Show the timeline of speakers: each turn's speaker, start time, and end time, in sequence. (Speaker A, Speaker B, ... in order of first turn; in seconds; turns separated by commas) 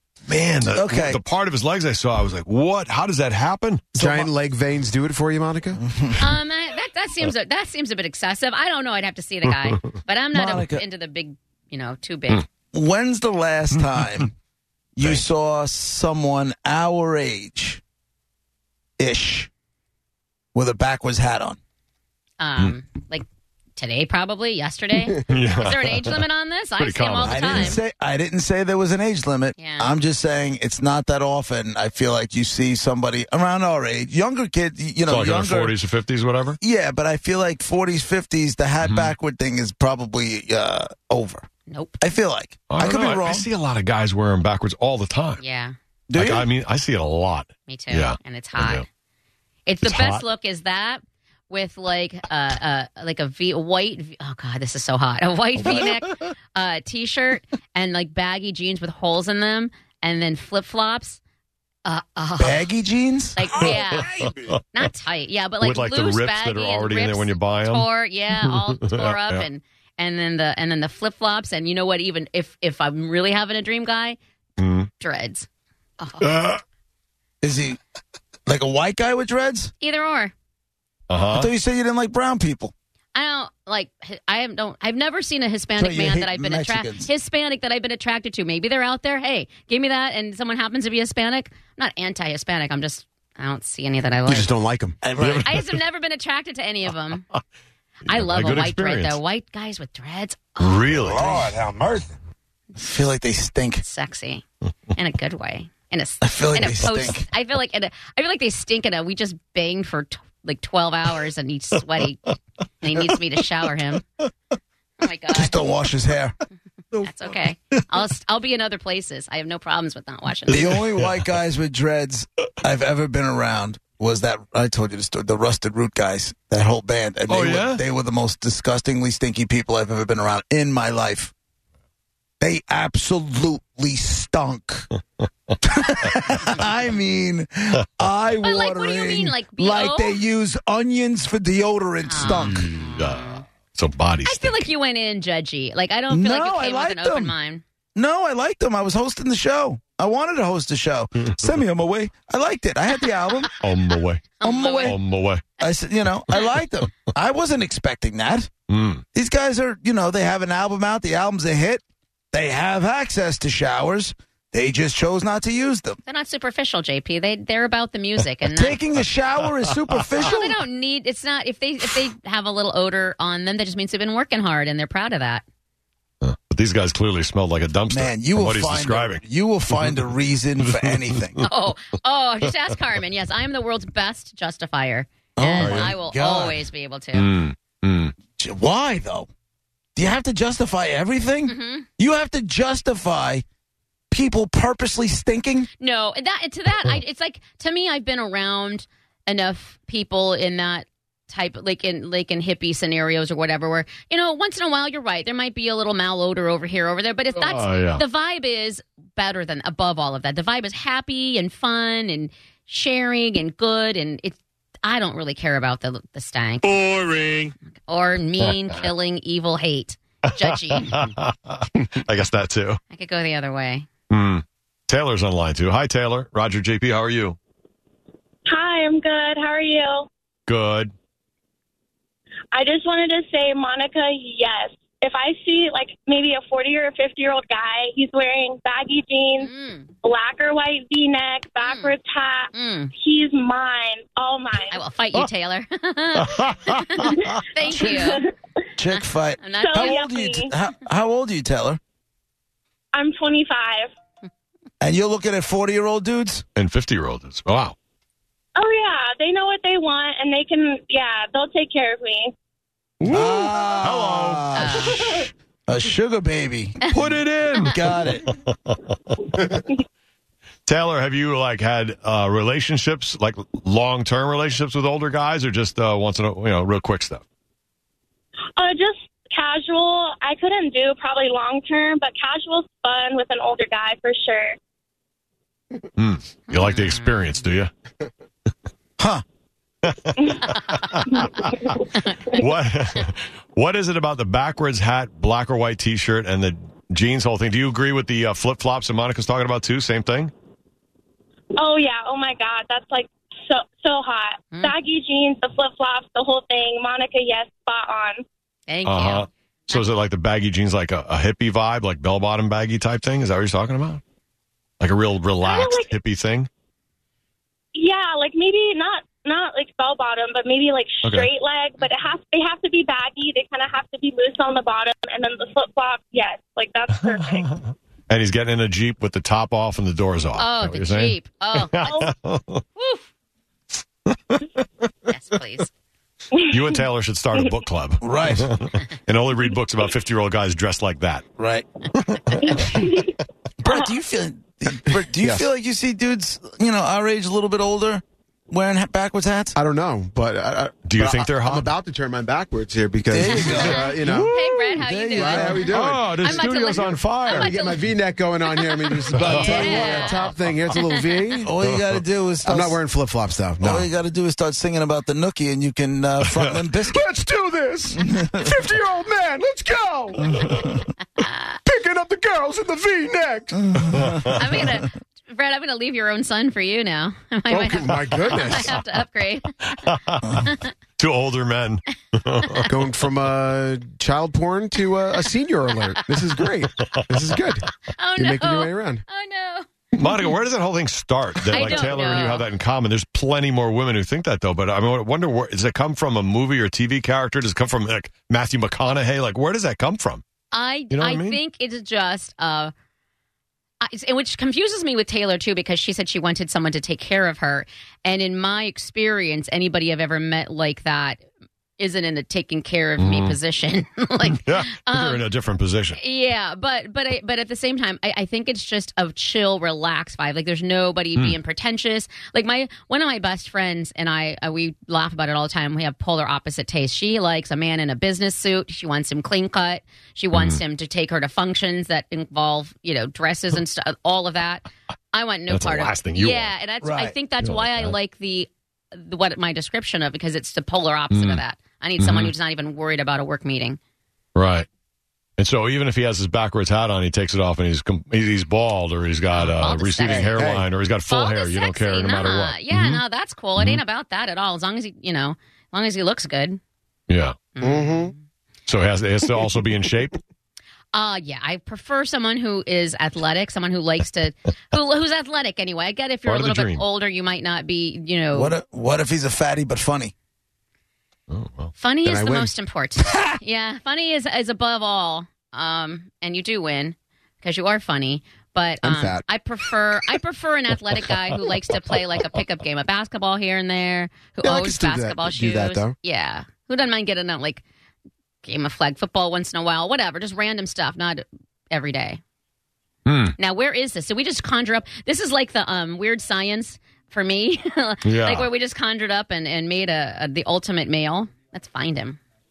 Speaker A: 0.3-1.2, Speaker B: 0.3-4.3, Speaker C: 4.0-5.8, Speaker A: 5.8-6.3, Speaker D: 6.2-12.5, Speaker A: 10.3-10.8, Speaker A: 12.7-14.3, Speaker A: 15.0-17.8, Speaker A: 19.0-19.5, Speaker A: 20.5-21.6, Speaker D: 22.4-23.2, Speaker D: 23.8-27.8, Speaker B: 25.2-26.2, Speaker B: 26.8-27.8, Speaker A: 27.2-35.8, Speaker D: 29.6-29.9, Speaker B: 35.0-36.6, Speaker A: 36.6-41.5, Speaker B: 38.8-39.1, Speaker D: 41.7-42.0, Speaker A: 42.0-43.5, Speaker B: 42.7-45.4, Speaker D: 45.4-45.8, Speaker A: 46.1-46.5, Speaker B: 46.2-48.9, Speaker D: 47.7-48.9, Speaker D: 49.7-61.2, Speaker B: 49.8-50.2, Speaker B: 55.6-56.0, Speaker D: 61.9-62.7, Speaker A: 62.4-63.7, Speaker D: 63.4-74.2, Speaker B: 63.5-64.6, Speaker B: 65.6-67.9, Speaker B: 68.5-69.5, Speaker B: 74.6-74.9, Speaker D: 75.0-75.5, Speaker D: 76.0-76.3, Speaker B: 76.2-76.6, Speaker A: 77.4-77.8, Speaker A: 78.5-79.7, Speaker D: 79.8-80.3, Speaker B: 81.1-81.5, Speaker A: 81.3-82.7, Speaker D: 83.2-94.5, Speaker A: 85.8-87.1, Speaker C: 94.3-95.0, Speaker A: 95.0-95.5, Speaker B: 95.2-95.8, Speaker D: 95.4-97.3, Speaker D: 98.1-101.4, Speaker B: 98.1-99.2, Speaker B: 100.6-101.6, Speaker C: 101.6-102.0, Speaker A: 102.8-103.8, Speaker D: 103.8-104.4, Speaker D: 105.0-114.1, Speaker A: 106.2-107.3, Speaker D: 115.0-115.6, Speaker A: 115.3-116.3, Speaker B: 116.9-117.8, Speaker D: 117.0-120.7, Speaker A: 120.5-131.3, Speaker B: 120.5-121.3, Speaker B: 127.3-127.8, Speaker A: 132.4-134.9, Speaker A: 135.6-142.7, Speaker D: 138.4-140.2, Speaker D: 142.0-143.4, Speaker B: 142.2-144.6, Speaker D: 144.2-147.6, Speaker A: 146.1-147.3, Speaker A: 147.9-153.5, Speaker B: 153.6-154.2, Speaker D: 154.4-155.0, Speaker A: 154.4-155.0, Speaker B: 154.8-155.4, Speaker A: 155.6-158.5, Speaker B: 158.7-159.1, Speaker A: 159.1-166.0, Speaker D: 166.1-168.8, Speaker A: 168.5-170.6, Speaker D: 170.2-175.4, Speaker B: 176.2-179.2, Speaker A: 177.9-181.4, Speaker B: 180.8-181.4, Speaker D: 181.4-187.3, Speaker A: 185.4-186.7, Speaker B: 185.6-185.9, Speaker B: 187.1-188.2, Speaker A: 188.4-189.3, Speaker A: 190.0-193.4, Speaker D: 191.5-191.9, Speaker A: 194.1-195.7, Speaker D: 195.8-216.8, Speaker B: 207.3-208.0, Speaker B: 216.6-217.5, Speaker D: 217.9-221.1, Speaker B: 220.7-222.8, Speaker D: 222.9-223.9, Speaker B: 224.1-227.4, Speaker E: 228.5-230.1, Speaker B: 230.5-230.9, Speaker E: 232.5-239.5, Speaker D: 239.4-239.9, Speaker E: 240.0-244.8, Speaker D: 241.6-241.9, Speaker D: 242.5-242.9, Speaker D: 244.7-248.3, Speaker B: 246.2-247.4, Speaker E: 247.0-248.3, Speaker A: 247.7-248.2, Speaker A: 248.8-251.8, Speaker D: 248.9-250.0, Speaker E: 249.6-250.5, Speaker E: 252.9-253.9, Speaker A: 254.8-256.4, Speaker B: 256.6-257.8, Speaker E: 258.6-262.4, Speaker B: 263.0-264.8, Speaker A: 263.1-266.9, Speaker D: 264.6-265.0, Speaker B: 266.9-269.6, Speaker A: 267.6-268.3, Speaker B: 270.7-277.2, Speaker E: 278.6-284.6, Speaker B: 286.0-287.7, Speaker D: 286.5-287.2, Speaker B: 289.9-300.3, Speaker E: 290.2-290.5, Speaker D: 290.6-290.9, Speaker E: 291.1-291.9, Speaker E: 301.6-308.2, Speaker D: 308.7-309.9, Speaker B: 308.9-314.0, Speaker B: 314.8-316.5, Speaker E: 315.4-315.9, Speaker E: 317.8-327.5, Speaker B: 321.0-321.3, Speaker B: 327.4-332.6, Speaker D: 330.4-331.9, Speaker E: 331.8-332.1, Speaker D: 332.8-333.1, Speaker B: 334.1-334.5, Speaker D: 335.1-335.7, Speaker E: 336.3-336.8, Speaker B: 336.5-341.2, Speaker A: 338.0-338.5, Speaker A: 341.4-341.6, Speaker B: 341.9-342.8, Speaker E: 342.4-343.9, Speaker A: 343.6-349.6, Speaker C: 345.2-345.5, Speaker C: 349.6-354.4, Speaker B: 350.9-351.7, Speaker A: 353.1-353.9, Speaker D: 353.2-357.9, Speaker B: 354.0-354.8, Speaker A: 354.8-355.7, Speaker C: 355.1-356.0, Speaker B: 355.7-357.5, Speaker C: 357.3-361.5, Speaker D: 358.4-360.3, Speaker B: 359.2-360.1, Speaker A: 361.4-362.8, Speaker C: 362.4-363.9, Speaker A: 363.6-367.0, Speaker B: 366.2-366.8, Speaker C: 366.9-370.9, Speaker A: 368.0-368.5, Speaker D: 371.2-371.5, Speaker C: 371.6-373.8, Speaker A: 373.7-374.2, Speaker B: 373.9-374.4, Speaker D: 374.3-380.7, Speaker C: 377.5-378.8, Speaker B: 379.7-380.4, Speaker B: 381.0-382.6, Speaker C: 382.7-389.0, Speaker B: 386.8-387.1, Speaker D: 387.9-389.7, Speaker B: 390.0-400.2, Speaker D: 391.4-392.4, Speaker D: 400.5-402.7, Speaker B: 400.9-401.4, Speaker D: 403.8-411.2, Speaker D: 411.8-415.2, Speaker B: 413.0-413.4, Speaker B: 414.3-416.0, Speaker D: 415.9-443.8, Speaker B: 430.3-430.6, Speaker B: 435.5-436.5, Speaker A: 436.8-437.2, Speaker B: 437.4-438.0, Speaker B: 441.1-441.4, Speaker B: 442.0-442.3, Speaker B: 444.4-444.7, Speaker B: 445.4-453.0, Speaker D: 449.3-450.5, Speaker C: 450.1-450.7, Speaker D: 451.1-456.6, Speaker B: 453.6-453.8, Speaker B: 457.1-457.4, Speaker D: 457.6-458.2, Speaker C: 457.6-458.1, Speaker B: 458.7-460.2, Speaker D: 460.9-468.6, Speaker B: 466.3-466.8, Speaker A: 468.3-470.1, Speaker B: 471.3-471.7, Speaker D: 471.8-487.6, Speaker C: 472.0-472.5, Speaker C: 478.8-479.2, Speaker B: 480.9-481.2, Speaker C: 484.4-485.9, Speaker D: 488.4-492.2, Speaker B: 493.1-493.4, Speaker D: 493.4-502.2, Speaker B: 498.0-498.5